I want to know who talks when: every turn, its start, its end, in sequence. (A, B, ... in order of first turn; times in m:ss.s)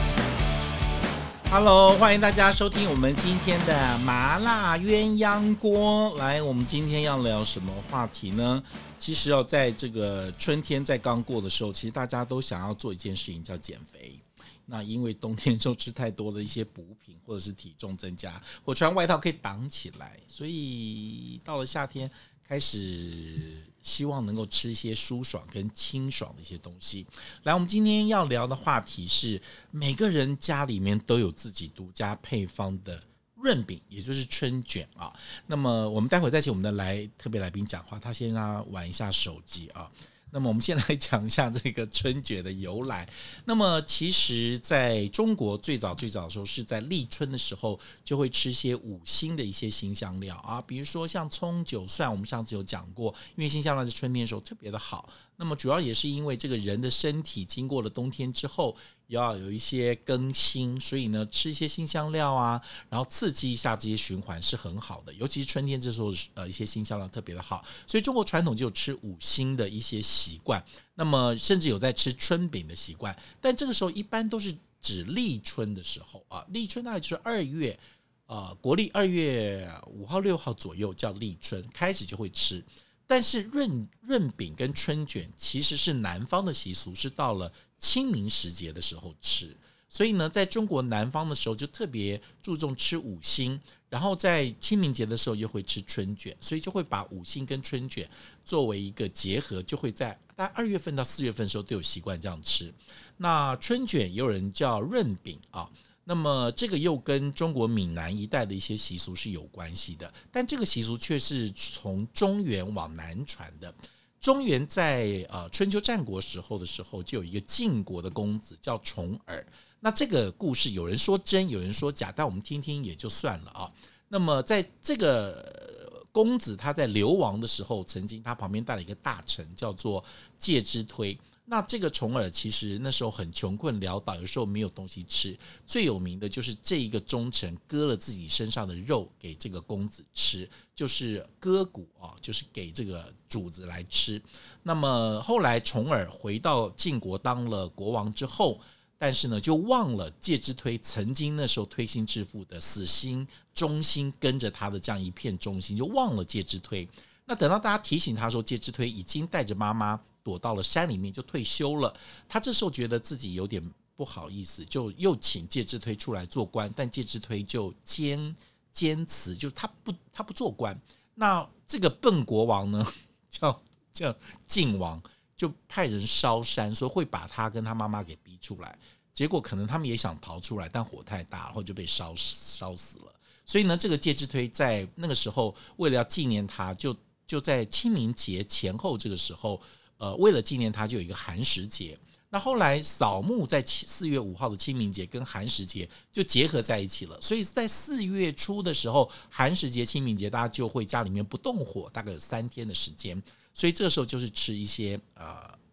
0:01.5-3:25.6 A